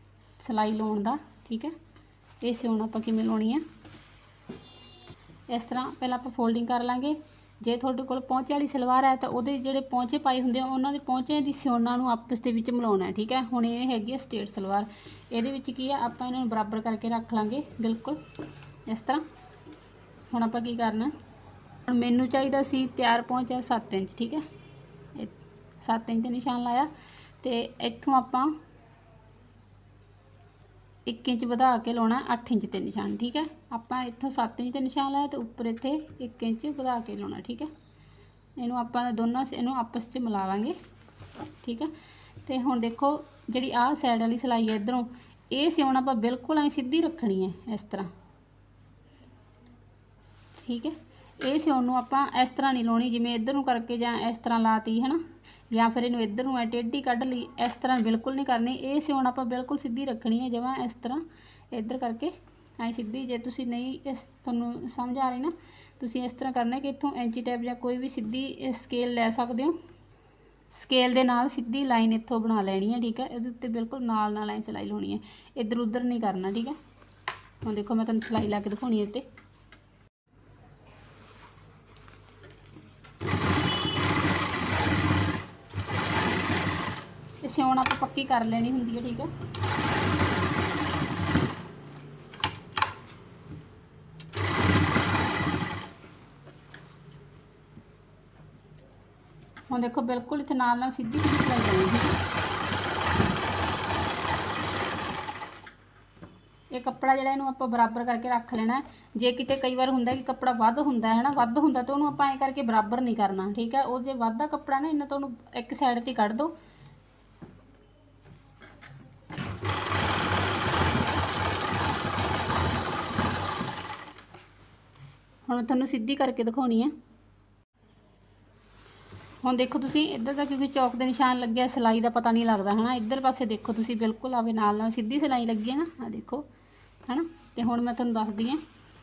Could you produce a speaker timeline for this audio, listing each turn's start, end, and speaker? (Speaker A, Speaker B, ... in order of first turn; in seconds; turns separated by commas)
Speaker A: 0.4-1.7, Speaker A: 2.4-3.6, Speaker A: 5.5-18.2, Speaker A: 18.9-19.2, Speaker A: 20.3-21.1, Speaker A: 21.9-24.4, Speaker A: 25.1-28.6, Speaker A: 31.1-37.7, Speaker A: 38.6-40.8, Speaker A: 41.6-41.9, Speaker A: 42.4-48.1, Speaker A: 50.6-69.8, Speaker A: 70.7-76.8, Speaker A: 77.6-79.3, Speaker A: 87.4-89.3, Speaker A: 99.7-102.2, Speaker A: 106.7-116.5, Speaker A: 125.5-126.9, Speaker A: 129.4-136.5, Speaker A: 137.1-138.6